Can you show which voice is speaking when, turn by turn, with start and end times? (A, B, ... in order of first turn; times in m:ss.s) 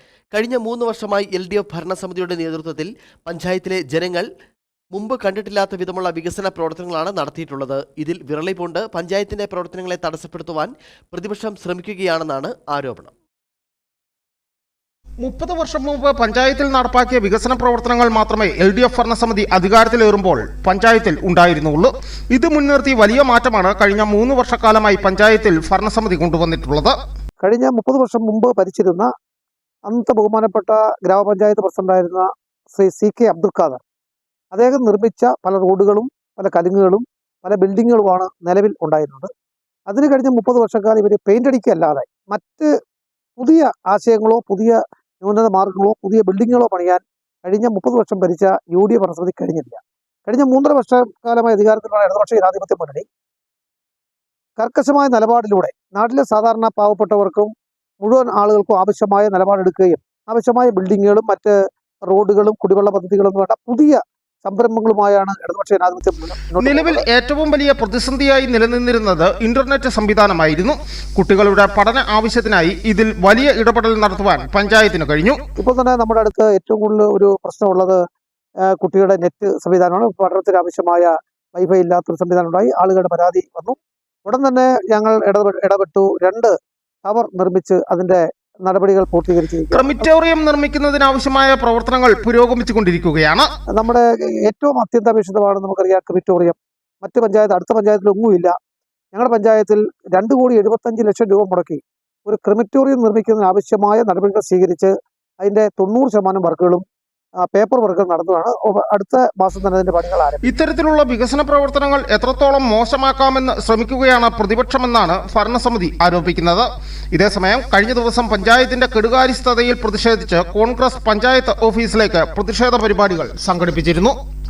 0:00.3-0:04.3 A
0:04.9-0:13.1 A
0:15.2-0:27.0 B
0:27.4-0:29.1 C
0:29.9-0:33.8 C
0:34.5-0:39.3 C
0:39.9-0:42.7 C
0:43.4-0:53.1 C
0:54.6-0:57.5 C
0:58.0-1:01.6 C
1:02.1-1:07.0 C
1:06.6-1:15.4 B
1:15.6-1:18.0 C
1:18.8-1:26.5 C
1:27.0-1:30.0 C
1:29.7-1:33.5 B
1:33.7-1:38.5 C
1:39.1-1:46.8 C
1:47.5-1:50.5 C
1:50.4-2:04.2 B